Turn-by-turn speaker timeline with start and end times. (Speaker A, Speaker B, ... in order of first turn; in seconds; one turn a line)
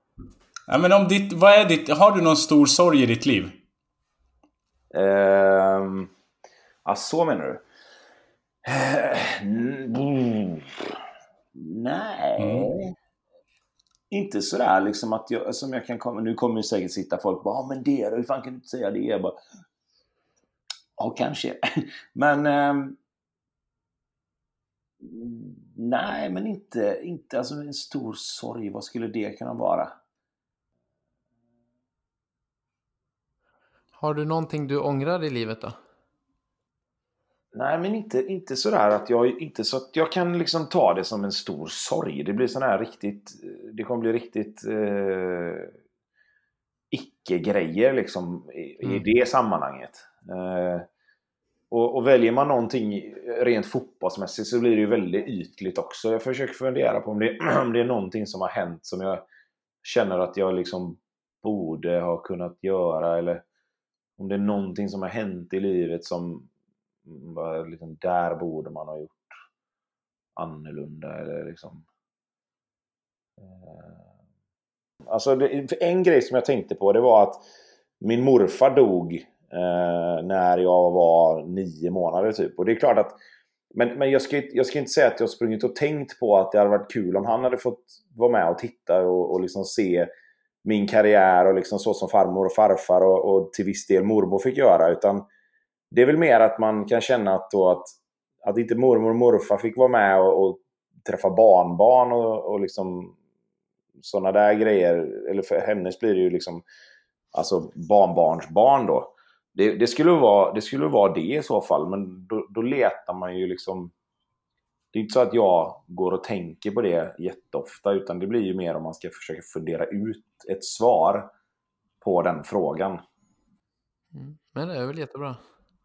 Speaker A: 0.7-3.5
Speaker B: 4.9-6.1
Speaker B: 6.8-7.6
Speaker B: 8.6-11.0
Speaker B: 11.5-12.9
Speaker A: 12.4-12.7
Speaker B: 14.1-19.4
Speaker B: 21.0-23.0
Speaker B: 25.0-29.9
Speaker C: 34.0-35.8
Speaker B: 37.5-45.7
Speaker B: 46.9-50.9
Speaker B: 51.7-59.2
Speaker B: 59.8-63.4
Speaker B: 64.2-66.5
Speaker B: 67.0-69.4
Speaker B: 70.3-71.8
Speaker B: 73.4-74.1
Speaker B: 75.1-77.4
Speaker B: 78.0-83.2
Speaker B: 83.7-90.1
Speaker B: 90.6-95.2
Speaker B: 95.9-103.2
Speaker B: 104.0-106.6
Speaker B: 107.3-113.9
Speaker B: 114.9-121.3
Speaker B: 122.0-123.0
Speaker C: 124.1-125.4